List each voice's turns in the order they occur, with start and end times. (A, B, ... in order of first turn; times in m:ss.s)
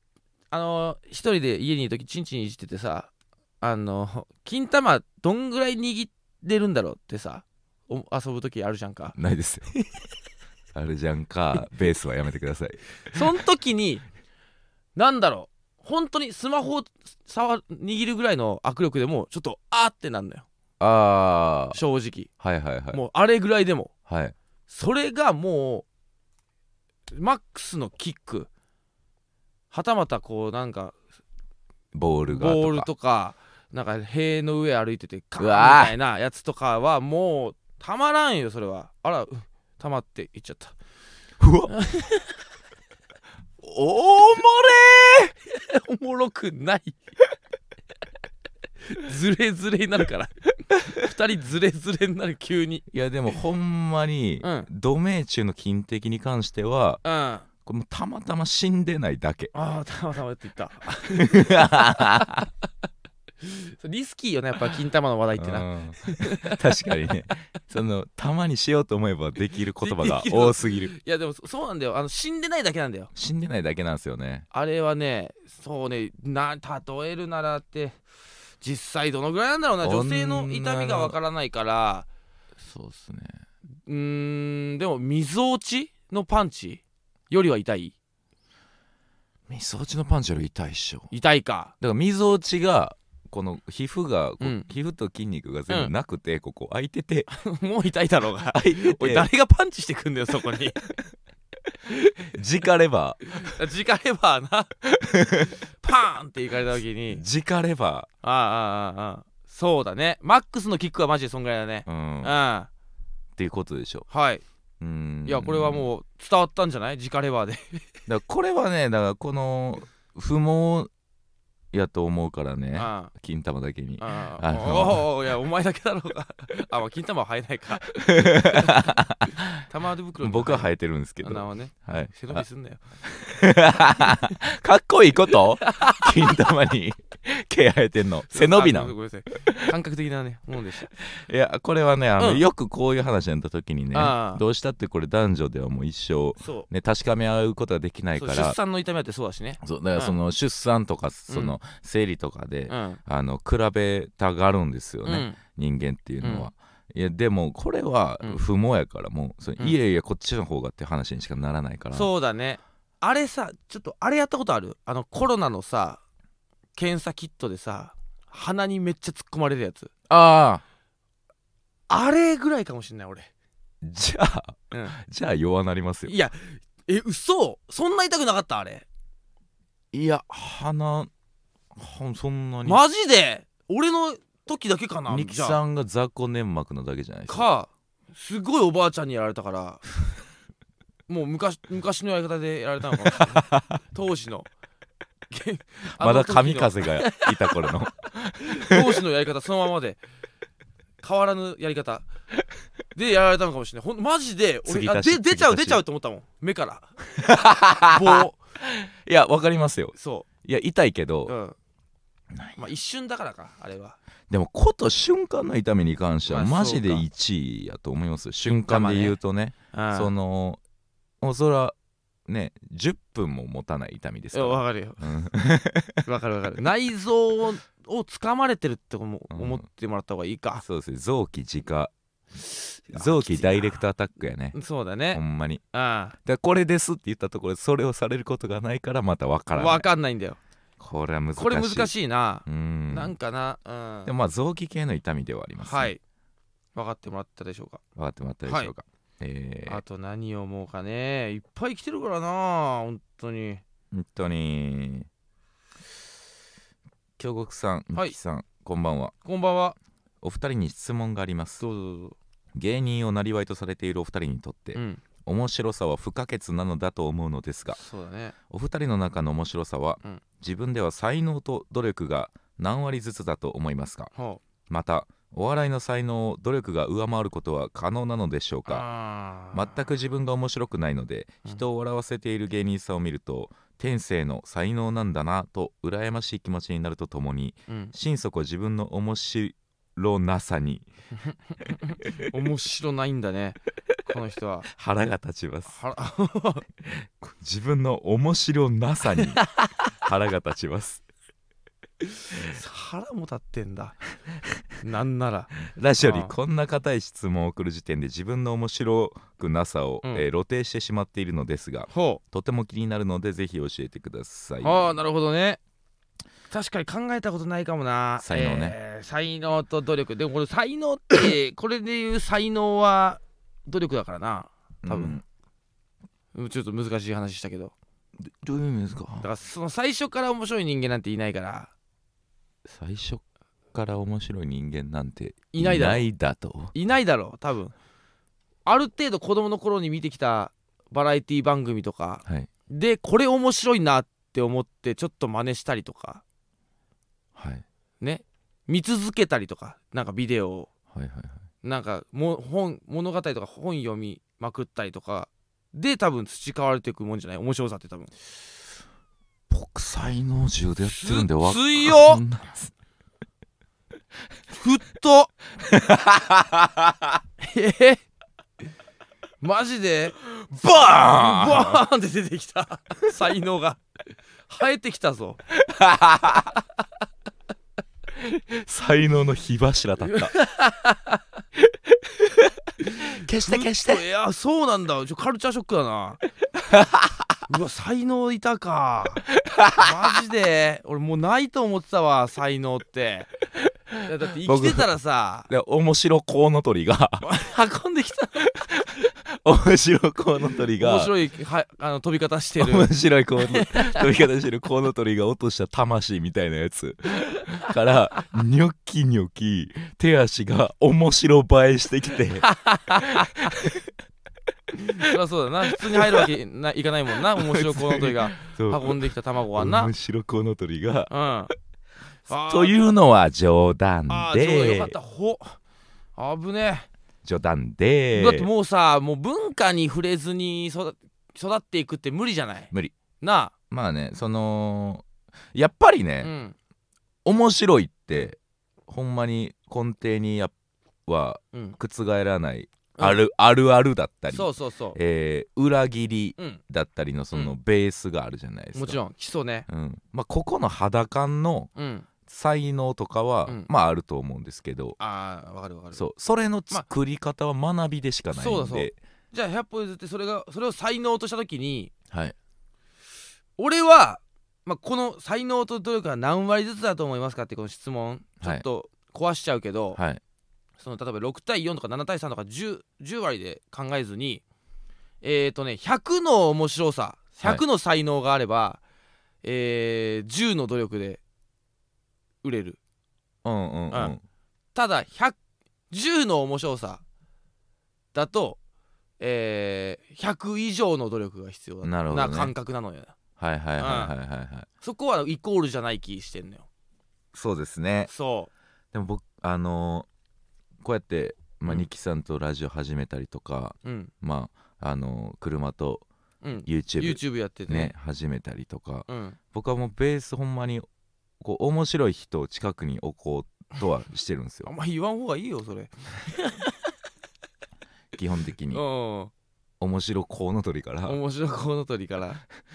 0:00.5-0:09.1 A
0:09.1-0:09.7 B
0:10.7-0:13.2 B
0:13.1-0:14.0 A
0:15.0-0:20.4 A
0:20.8-0:21.8 B
0:21.7-0:22.3 A
0:22.4-0:23.0 B
0:22.9-0:23.9 A
0:24.1-0:24.3 B
0:24.7-0:25.8 A
0:27.1-0:28.5 A
0:29.7-0:30.9 A
0:31.9-0:32.9 B
0:32.3-0:40.7 A
0:35.4-0:35.9 B
0:41.4-0:41.7 B
0:41.7-0:42.4 A
0:43.6-0:45.3 B
0:45.4-0:47.0 A
0:48.9-0:52.8 A
0:52.9-0:57.0 B
0:54.4-0:54.7 A
0:57.0-0:57.4 A
0:57.6-0:59.5 B
0:59.5-1:02.2 A
1:01.0-1:02.4 B
1:03.4-1:06.6 A
1:05.4-1:10.9 B
1:09.8-1:13.1 A
1:13.1-1:14.5 B
1:14.5-1:18.0 A
1:18.6-1:22.1 A
1:19.8-1:21.2 B
1:22.6-1:23.4 B
1:23.8-1:27.9 A
1:29.5-1:31.1 B
1:31.1-1:31.7 A
1:31.8-1:37.3 B
1:34.4-1:34.7 A
1:37.3-1:40.8 A
1:38.5-1:39.3 B
1:42.2-1:43.4 B
1:43.4-1:44.7 A
1:44.9-1:45.6 B
1:45.8-1:47.2 A
1:47.1-1:48.1 B
1:48.2-1:52.7 A
1:51.9-1:52.3 B
1:53.4-1:54.1 B
1:54.1-1:54.4 A
1:54.8-1:55.9 B
1:55.2-1:57.9 A
1:58.1-2:00.9 B
2:01.7-2:05.1 B
2:02.7-2:03.1 A
2:04.0-2:08.9 A
2:08.0-2:09.6 B
2:09.7-2:10.7 A
2:10.2-2:12.4 B
2:11.2-2:12.8 A
2:13.0-2:19.7 B
2:15.3-2:16.3 A
2:18.3-2:20.9 A
2:21.0-2:28.6 B
2:22.2-2:22.4 A
2:23.9-2:24.4 A
2:26.4-2:26.7 A
2:28.2-2:30.2 A
2:29.6-2:42.1 B
2:31.3-2:31.6 A
2:32.7-2:33.0 A
2:35.0-2:35.4 A
2:36.2-2:36.5 A
2:41.9-2:46.0 A
2:46.8-2:49.9 A
2:50.1-2:50.6 B
2:51.9-2:53.3 A
2:53.8-2:56.2 B
2:56.0-2:58.8 A
2:59.9-3:01.1 B
3:01.8-3:02.8 B
3:02.6-3:05.6 A
3:05.1-3:07.4 B
3:07.3-3:09.8 A
3:11.1-3:14.5 A
3:13.1-3:13.8 B
3:15.3-3:17.7 A
3:15.9-3:19.0 B
3:18.5-3:20.0 A
3:21.0-3:22.0 A
3:22.9-3:26.9 A
3:24.6-3:25.8 B
3:27.1-3:31.3 B
3:27.9-3:28.4 A
3:30.0-3:30.3 A
3:31.3-3:31.6 A
3:32.3-3:32.6 B
3:32.6-3:34.0 A
3:34.3-3:40.6 B
3:36.2-3:37.0 A
3:38.4-3:39.2 A
3:39.7-3:40.1 A
3:41.2-3:41.7 B
3:42.3-3:46.0 B
3:44.3-3:45.1 A
3:46.0-3:50.6 A
3:49.3-3:49.6 B
3:50.6-3:51.9 B
3:52.4-3:53.9 A
3:52.9-3:54.6 B
3:54.5-3:55.2 A
3:55.1-3:55.6 B
3:55.7-3:56.1 A
3:56.2-3:59.8 B
3:59.5-4:00.4 A
4:00.8-4:01.9 B
4:01.4-4:04.1 A
4:02.4-4:03.1 B
4:04.0-4:05.9 B
4:05.6-4:06.0 A
4:06.7-4:07.8 A
4:08.0-4:09.8 B
4:08.4-4:08.7 A
4:09.7-4:13.6 A
4:13.9-4:15.1 B
4:17.2-4:19.1 B
4:19.2-4:19.8 A
4:20.2-4:21.6 B
4:21.6-4:22.2 A
4:22.5-4:27.8 B
4:24.7-4:25.0 A
4:27.8-4:28.4 A
4:28.5-4:34.1 B
4:34.1-4:34.4 A
4:34.7-4:38.9 B
4:38.7-4:39.8 A
4:39.5-4:50.9 B
4:47.7-4:47.9 A
4:51.3-4:54.7 A
4:51.6-4:52.1 B
4:54.7-4:55.8 B
4:55.7-4:56.7 A
4:56.8-4:59.4 B
5:00.0-5:01.0 B
5:02.0-5:04.0 A
5:04.8-5:06.3 A
5:05.6-5:15.0 B
5:11.9-5:12.2 A
5:14.6-5:15.6 A
5:16.5-5:25.2 A
5:18.2-5:18.8 B
5:24.8-5:25.2 B
5:26.3-5:27.7 A
5:28.2-5:29.3 B
5:29.2-5:31.7 A
5:32.7-5:36.7 B
5:35.5-5:36.0 A
5:36.7-5:37.7 A
5:38.6-5:46.2 A
5:47.4-5:47.6 B
5:48.0-5:50.7 A
5:50.9-5:51.4 B
5:51.6-5:58.1 A
5:59.5-6:02.7 B
6:00.8-6:02.2 A
6:04.5-6:05.3 A
6:05.7-6:06.9 B
6:07.4-6:08.0 A
6:09.4-6:13.8 A
6:10.5-6:11.8 B
6:14.5-6:15.4 A
6:15.6-6:16.5 B
6:18.2-6:20.3 B
6:20.0-6:21.2 A
6:22.2-6:24.0 B
6:23.0-6:26.2 A
6:26.7-6:27.0 B
6:27.5-6:29.2 A
6:29.5-6:29.8 B
6:29.7-6:33.3 A
6:34.0-6:35.5 A
6:34.3-6:34.9 B
6:35.5-6:37.4 B
6:37.2-6:38.5 A
6:38.4-6:41.1 B
6:40.8-6:44.0 A
6:42.6-6:52.5 B
6:52.4-6:53.5 A
6:53.0-6:53.9 B
6:54.9-6:59.9 A
6:55.8-6:56.2 B
6:57.4-7:01.1 B
7:01.1-7:01.5 A
7:02.3-7:02.8 A
7:02.3-7:05.0 B
7:04.1-7:05.6 A
7:06.2-7:06.9 A
7:07.2-7:08.5 B
7:08.1-7:13.5 A
7:13.7-7:16.3 B
7:16.2-7:16.6 A
7:17.2-7:20.5 B
7:21.0-7:29.0 B
7:24.3-7:25.0 A
7:28.7-7:29.7 A
7:29.7-7:31.7 B
7:31.8-7:32.1 A
7:32.2-7:35.0 B
7:35.0-7:36.0 A
7:35.9-7:39.0 B
7:38.3-7:41.9 A
7:43.6-7:50.0 A
7:49.9-7:50.2 B
7:50.8-7:54.4 A
7:55.2-7:58.8 A
7:59.4-8:01.2 A
8:02.4-8:02.8 A
8:03.4-8:04.2 B
8:04.7-8:05.4 A
8:05.9-8:07.0 A
8:08.1-8:08.6 A
8:09.2-8:13.1 A
8:11.8-8:12.5 B
8:13.4-8:14.7 B
8:13.8-8:14.1 A
8:14.8-8:16.6 A
8:17.3-8:18.1 B
8:18.1-8:18.5 A
8:18.9-8:20.1 B
8:20.8-8:26.0 B
8:23.8-8:24.1 A
8:26.4-8:27.9 A
8:26.6-8:30.8 B
8:29.1-8:29.4 A
8:31.4-8:34.7 B
8:34.6-8:36.8 A
8:38.1-8:38.8 B
8:38.7-8:39.3 A
8:39.8-8:41.2 B
8:41.0-8:42.4 A